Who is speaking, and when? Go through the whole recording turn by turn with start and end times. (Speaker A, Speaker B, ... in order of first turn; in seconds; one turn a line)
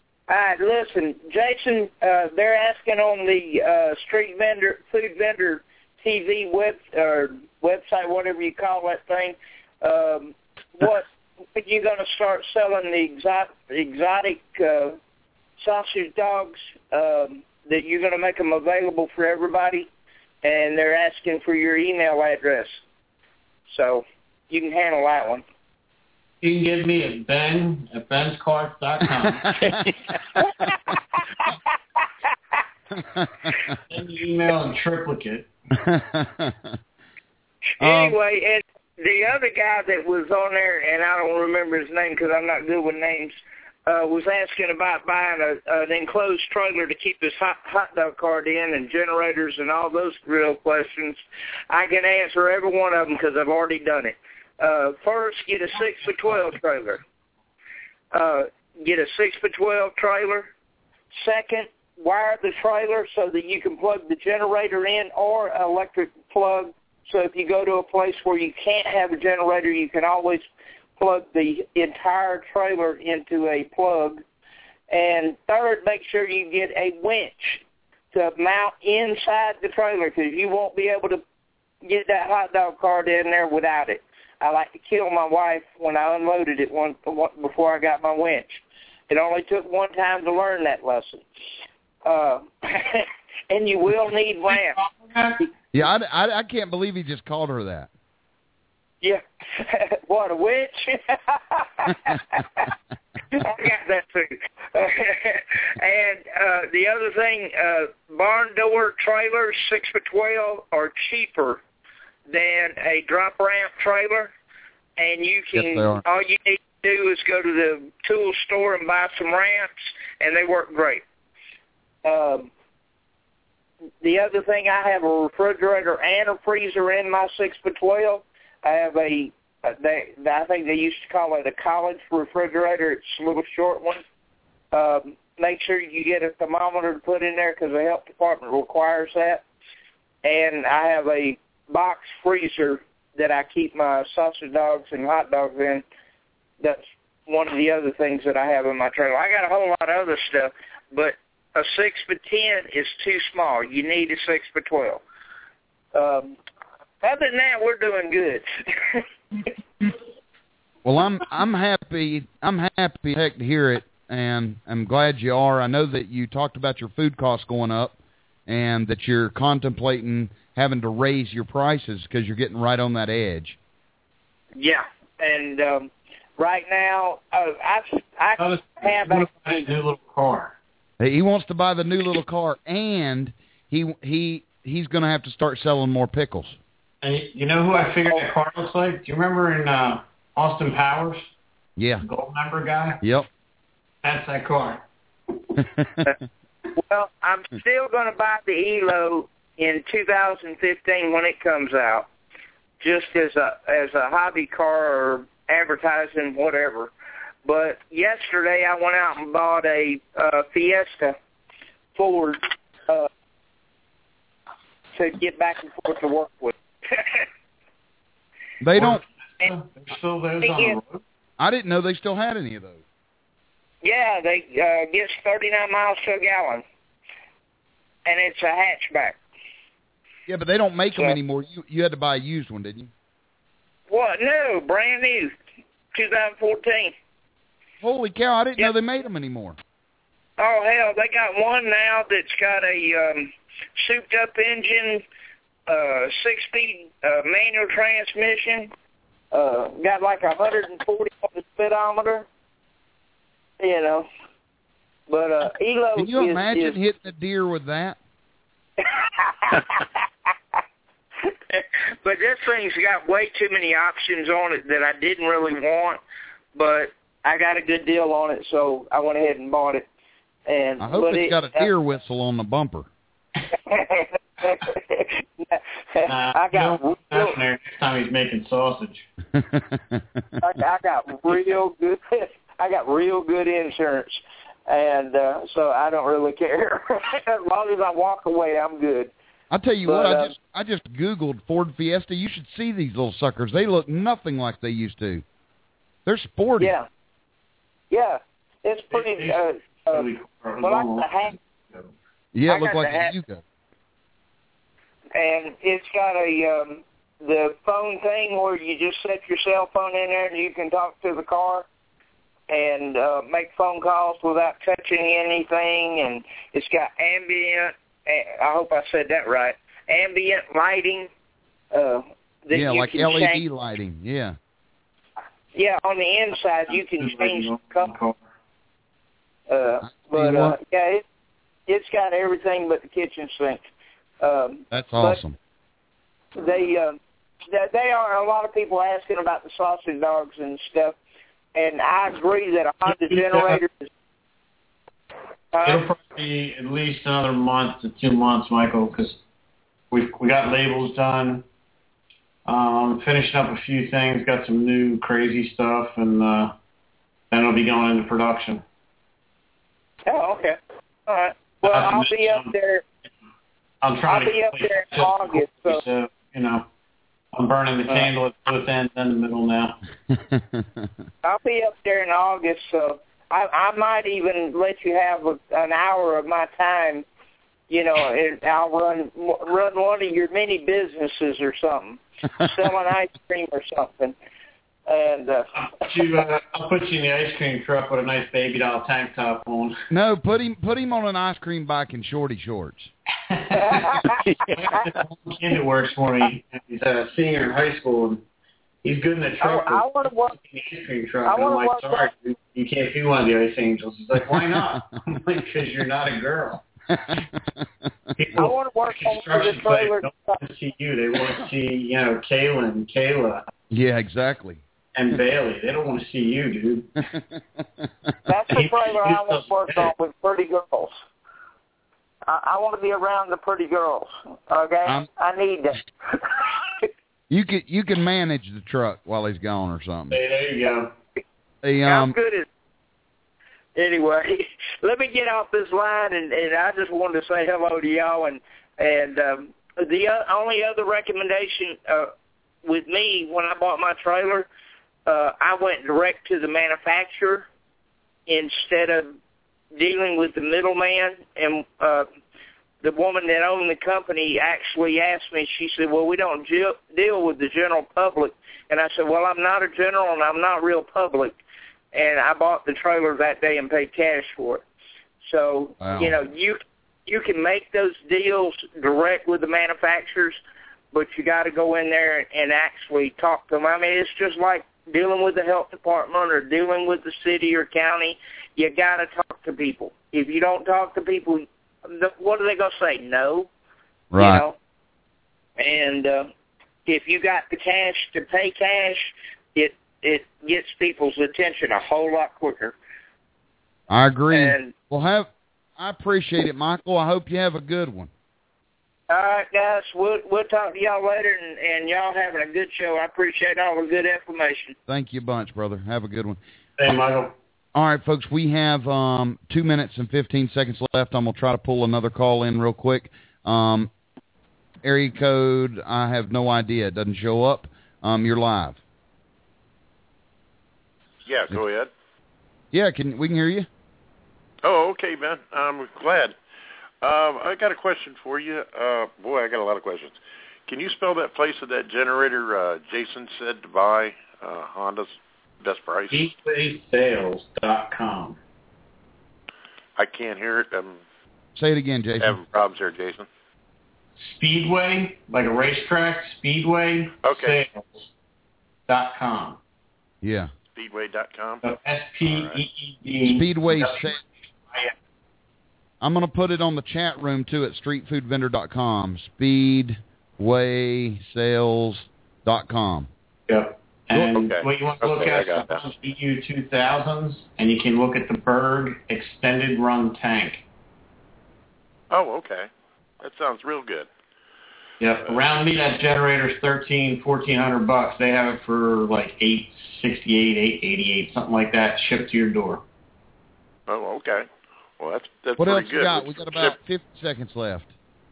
Speaker A: 0.3-15.0
Speaker A: 15.6-19.9
Speaker A: 20.4-22.8
Speaker A: 23.7-25.4
Speaker B: 26.4-29.6
Speaker C: 29.4-29.9
Speaker C: 33.1-33.6
Speaker B: 33.9-35.5
Speaker C: 35.8-36.7
Speaker A: 37.8-43.4
Speaker C: 37.8-38.2
Speaker A: 43.9-57.0
Speaker A: 58.1-60.5
Speaker A: 61.2-70.5
Speaker A: 71.0-74.2
Speaker A: 74.9-81.2
Speaker A: 81.8-91.3
Speaker A: 92.0-94.8
Speaker B: 94.5-95.5
Speaker C: 95.7-97.9
Speaker A: 99.0-102.7
Speaker A: 103.3-111.6
Speaker A: 112.3-114.3
Speaker A: 115.0-121.0
Speaker C: 115.5-116.0
Speaker A: 122.0-122.5
Speaker A: 124.0-134.0
Speaker A: 134.7-139.4
Speaker A: 140.2-145.8
Speaker A: 146.6-155.0
Speaker A: 155.9-156.4
Speaker A: 157.0-159.0
Speaker C: 160.8-173.6
Speaker A: 174.6-179.7
Speaker B: 178.4-180.6
Speaker C: 181.0-186.6
Speaker B: 187.0-191.3
Speaker C: 191.8-192.0
Speaker B: 192.0-193.0
Speaker C: 193.0-193.3
Speaker B: 194.0-194.8
Speaker C: 195.6-196.0
Speaker A: 196.8-202.1
Speaker A: 202.8-206.9
Speaker A: 207.4-211.2
Speaker A: 211.9-213.1
Speaker A: 214.9-217.2
Speaker C: 218.6-219.0
Speaker B: 218.8-221.0
Speaker A: 220.4-220.8
Speaker C: 221.4-222.8
Speaker A: 223.8-226.6
Speaker A: 228.1-229.2
Speaker C: 230.3-232.9
Speaker A: 233.9-235.4
Speaker A: 235.9-236.9
Speaker C: 237.8-239.6
Speaker A: 240.4-245.0
Speaker A: 245.7-248.7
Speaker A: 249.3-252.3
Speaker A: 253.6-254.1
Speaker A: 255.1-256.8
Speaker C: 256.0-258.0
Speaker A: 258.8-259.9
Speaker A: 261.5-266.0
Speaker A: 266.6-269.9
Speaker A: 270.5-271.7
Speaker C: 270.8-272.9
Speaker A: 273.6-277.4
Speaker B: 276.1-279.1
Speaker C: 279.4-280.2
Speaker A: 280.4-289.1
Speaker C: 289.5-295.2
Speaker A: 289.9-290.4
Speaker C: 296.1-296.7
Speaker A: 296.6-296.9
Speaker A: 297.9-300.1
Speaker B: 298.9-301.9
Speaker A: 300.6-301.4
Speaker C: 302.4-303.4
Speaker A: 302.5-303.2
Speaker A: 305.1-311.7
Speaker A: 312.5-321.1
Speaker A: 321.7-323.4
Speaker C: 322.5-324.4
Speaker A: 325.6-327.9
Speaker B: 326.7-328.2
Speaker A: 329.5-331.0
Speaker C: 329.9-330.6
Speaker A: 331.7-333.6
Speaker A: 334.2-335.2
Speaker C: 334.7-335.4
Speaker A: 336.4-337.0
Speaker A: 337.5-341.0
Speaker A: 341.6-343.9
Speaker B: 342.9-343.6
Speaker A: 345.5-345.8
Speaker B: 345.6-349.2
Speaker B: 349.9-351.4
Speaker B: 352.5-356.5
Speaker B: 357.3-358.6
Speaker A: 360.1-362.8
Speaker B: 361.6-362.5
Speaker B: 363.8-366.6
Speaker A: 364.1-365.8
Speaker B: 367.3-369.8
Speaker C: 370.1-370.9
Speaker A: 371.2-377.1
Speaker A: 377.7-384.1
Speaker A: 384.9-386.1
Speaker B: 385.6-389.7
Speaker C: 389.9-392.9
Speaker B: 393.3-398.2
Speaker A: 393.6-394.9
Speaker B: 398.8-406.6
Speaker A: 399.4-400.4
Speaker A: 401.2-402.1
Speaker B: 408.2-413.4
Speaker A: 408.3-410.4
Speaker C: 413.7-414.6
Speaker B: 414.9-416.9
Speaker A: 418.3-420.9
Speaker B: 418.5-419.9
Speaker A: 422.3-426.9
Speaker C: 427.3-430.2
Speaker B: 430.1-430.9
Speaker C: 431.6-432.2
Speaker A: 431.8-432.5
Speaker A: 433.8-442.1
Speaker A: 442.6-444.5
Speaker A: 445.1-447.5
Speaker A: 448.3-449.1
Speaker A: 449.8-452.1
Speaker A: 452.8-461.4
Speaker A: 461.9-464.6
Speaker A: 465.2-470.4
Speaker C: 465.8-466.1
Speaker A: 470.9-483.5
Speaker C: 484.1-484.4
Speaker A: 484.1-484.6
Speaker A: 485.6-486.3
Speaker A: 486.9-492.8
Speaker C: 493.9-498.1
Speaker A: 494.3-494.7
Speaker A: 499.1-504.8
Speaker C: 504.9-506.4
Speaker B: 506.8-507.3
Speaker C: 507.8-513.9
Speaker C: 514.8-518.8
Speaker D: 521.3-521.9
Speaker C: 522.7-523.7
Speaker D: 524.6-526.4
Speaker D: 527.0-536.3
Speaker B: 536.1-538.4
Speaker D: 540.0-541.0
Speaker C: 541.6-542.4
Speaker D: 542.2-543.3
Speaker B: 544.2-547.9
Speaker D: 547.2-547.6
Speaker B: 548.9-549.6
Speaker C: 550.2-550.5
Speaker D: 550.8-551.6
Speaker B: 551.6-554.9
Speaker D: 552.2-552.6
Speaker C: 553.2-554.2
Speaker C: 556.0-563.1
Speaker B: 563.5-570.6
Speaker D: 564.1-565.9
Speaker D: 572.1-572.7
Speaker D: 573.2-574.1
Speaker B: 575.0-582.8
Speaker D: 575.2-575.5
Speaker D: 583.9-586.8
Speaker C: 585.6-587.9